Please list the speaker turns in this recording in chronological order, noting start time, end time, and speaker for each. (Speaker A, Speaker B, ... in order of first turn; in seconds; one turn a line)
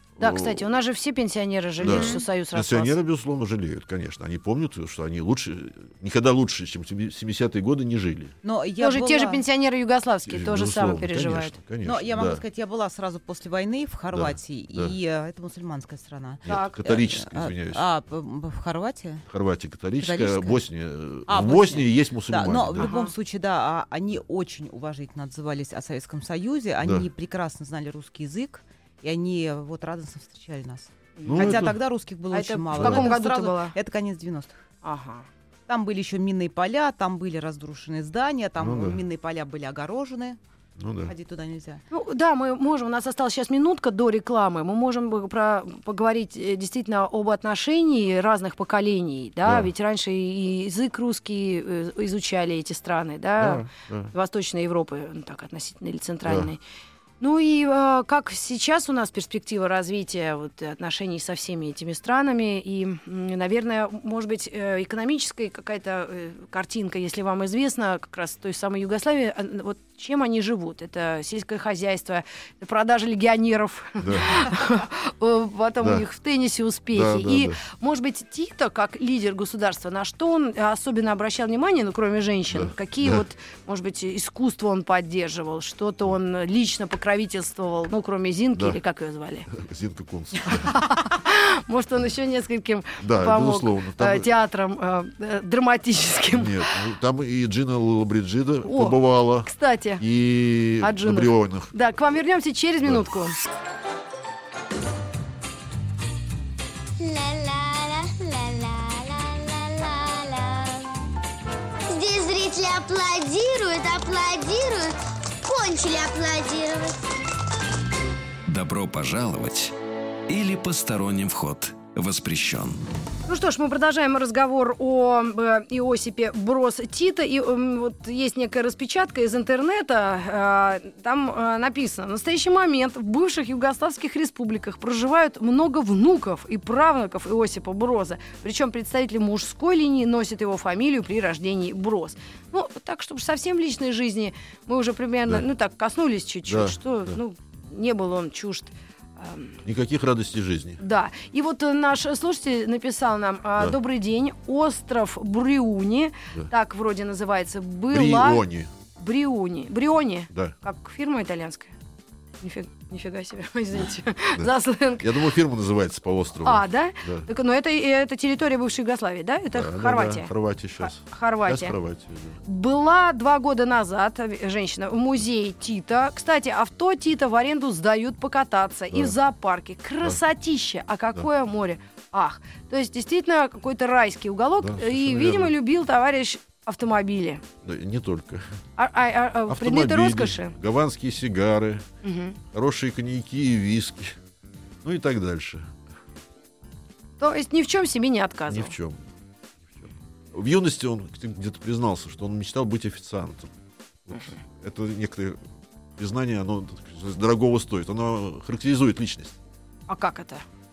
Speaker A: 0.2-0.7
Speaker B: 0.2-2.9
Speaker C: 1.8-2.2
Speaker A: 1.8-8.4
Speaker C: 8.4-9.4
Speaker B: 8.8-11.6
Speaker A: 10.3-12.4
Speaker C: 11.8-19.3
Speaker A: 14.1-14.9
Speaker A: 16.4-17.8
Speaker B: 16.5-16.8
Speaker A: 19.3-22.9
Speaker C: 20.0-20.6
Speaker C: 21.3-34.6
Speaker B: 22.8-23.1
Speaker A: 26.8-27.1
Speaker B: 31.2-31.7
Speaker A: 31.2-31.8
Speaker B: 32.3-33.8
Speaker A: 32.7-33.1
Speaker B: 34.8-35.3
Speaker C: 35.7-40.4
Speaker A: 38.6-39.0
Speaker A: 40.8-41.1
Speaker C: 41.1-41.8
Speaker B: 41.9-56.6
Speaker A: 49.4-49.7
Speaker A: 53.4-54.1
Speaker A: 56.3-56.5
Speaker B: 57.2-89.5
Speaker A: 74.0-74.5
Speaker A: 76.9-77.6
Speaker A: 82.5-83.2
Speaker A: 89.5-90.8
Speaker B: 90.5-96.7
Speaker A: 93.0-94.3
Speaker A: 96.3-101.7
Speaker B: 98.6-100.0
Speaker B: 100.8-103.4
Speaker D: 107.0-110.9
Speaker D: 111.9-116.9
Speaker E: 118.5-119.7
Speaker E: 120.3-122.8
Speaker B: 123.3-149.6
Speaker A: 146.5-147.2
Speaker A: 149.7-150.8
Speaker B: 150.8-158.4
Speaker A: 157.9-158.7
Speaker B: 159.0-161.7
Speaker B: 162.4-165.1
Speaker A: 164.4-167.3
Speaker B: 166.4-171.8
Speaker A: 169.5-172.4
Speaker B: 172.4-187.4
Speaker A: 184.6-185.5
Speaker A: 187.6-188.5
Speaker B: 188.8-190.6
Speaker A: 189.5-191.9
Speaker B: 192.0-192.4
Speaker A: 192.5-194.2
Speaker A: 194.8-195.7
Speaker B: 197.2-198.7
Speaker A: 198.5-199.0
Speaker A: 199.6-203.5
Speaker A: 204.1-205.4
Speaker A: 206.0-209.4
Speaker B: 209.9-210.4